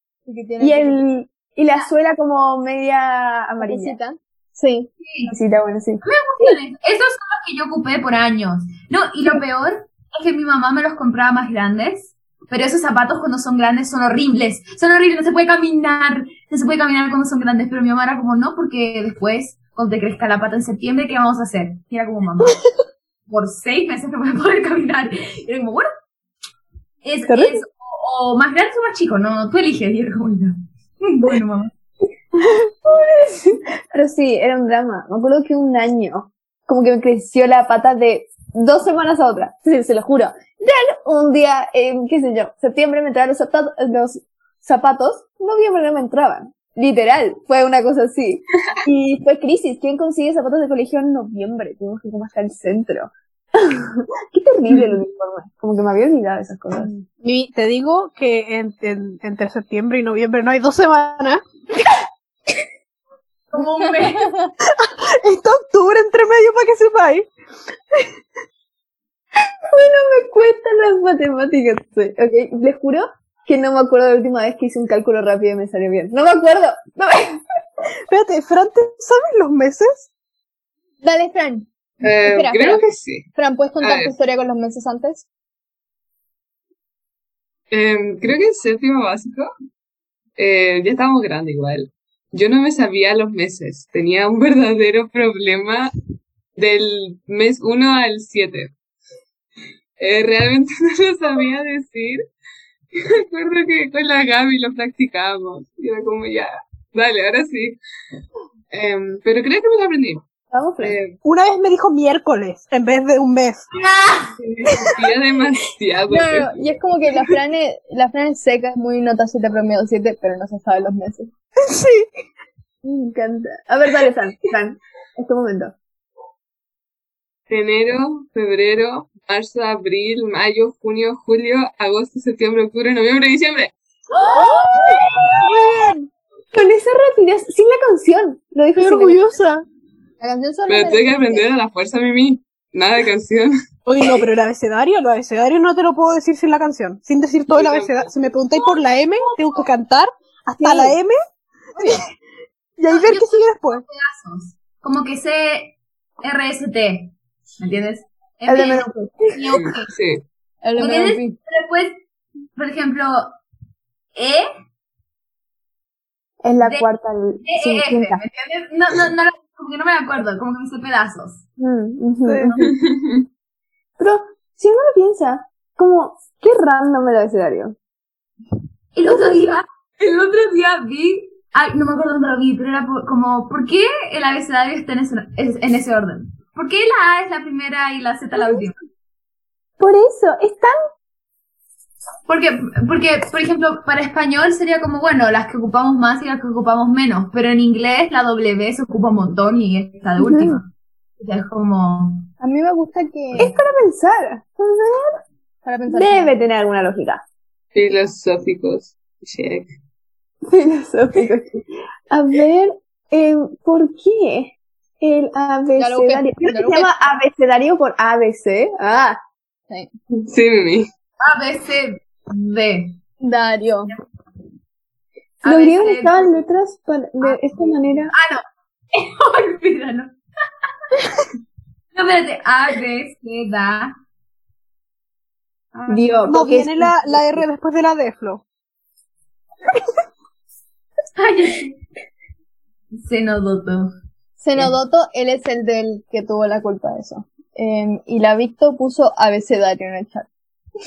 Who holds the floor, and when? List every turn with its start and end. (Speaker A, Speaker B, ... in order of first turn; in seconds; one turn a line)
Speaker A: 0.3-1.0
Speaker B: 0.6-4.0
Speaker A: 3.6-4.9
Speaker C: 5.0-5.3
Speaker B: 5.3-6.5
Speaker C: 6.0-22.6
Speaker C: 23.3-25.9
Speaker C: 27.0-31.7
Speaker B: 32.9-56.9
Speaker D: 57.2-61.4
Speaker C: 63.5-64.3
Speaker D: 64.7-67.3
Speaker B: 69.7-77.4
Speaker D: 78.1-80.1
Speaker A: 81.0-81.7
Speaker E: 82.0-83.3
Speaker A: 82.2-85.3
Speaker E: 83.8-84.2
Speaker E: 87.7-89.5
Speaker E: 90.4-95.9
Speaker E: 96.6-98.7
Speaker E: 100.0-102.2
Speaker E: 103.0-107.8
Speaker E: 108.7-110.2
Speaker B: 110.5-111.0
Speaker E: 110.8-111.2
Speaker D: 111.2-113.7
Speaker C: 113.9-114.2
Speaker E: 114.6-116.7
Speaker A: 116.1-121.3
Speaker D: 121.6-122.1
Speaker B: 122.8-125.8
Speaker E: 127.5-133.7
Speaker B: 134.3-135.1
Speaker D: 135.4-136.1
Speaker B: 136.5-139.4
Speaker D: 138.8-139.7
Speaker A: 140.2-141.5
Speaker E: 140.7-143.5
Speaker D: 143.9-151.2
Speaker E: 147.5-148.1
Speaker B: 150.6-151.0
Speaker D: 152.8-153.8
Speaker C: 152.9-159.9
Speaker B: 158.5-159.4
Speaker E: 159.5-160.2
Speaker A: 160.6-161.3
Speaker C: 160.8-162.0
Speaker C: 162.6-163.3
Speaker C: 164.2-164.5
Speaker B: 166.4-168.2
Speaker C: 166.6-166.9
Speaker C: 167.4-171.4
Speaker B: 171.6-172.7
Speaker D: 172.2-172.6
Speaker E: 172.7-173.2
Speaker B: 174.0-177.8
Speaker C: 178.9-188.8
Speaker B: 189.8-190.8
Speaker C: 192.3-202.3
Speaker B: 200.2-200.6
Speaker A: 202.4-203.5
Speaker B: 203.3-205.1
Speaker A: 205.7-206.4
Speaker B: 205.9-207.2
Speaker E: 207.7-209.7
Speaker B: 210.5-219.2
Speaker A: 215.8-217.0
Speaker E: 220.3-220.9
Speaker C: 221.2-223.0
Speaker A: 223.2-223.9
Speaker C: 225.4-226.3
Speaker B: 225.4-228.1
Speaker C: 227.2-230.2
Speaker C: 231.9-233.9
Speaker C: 235.7-236.3
Speaker B: 235.9-237.4
Speaker D: 236.3-238.4
Speaker C: 241.2-241.8
Speaker C: 243.0-243.9
Speaker A: 244.4-250.3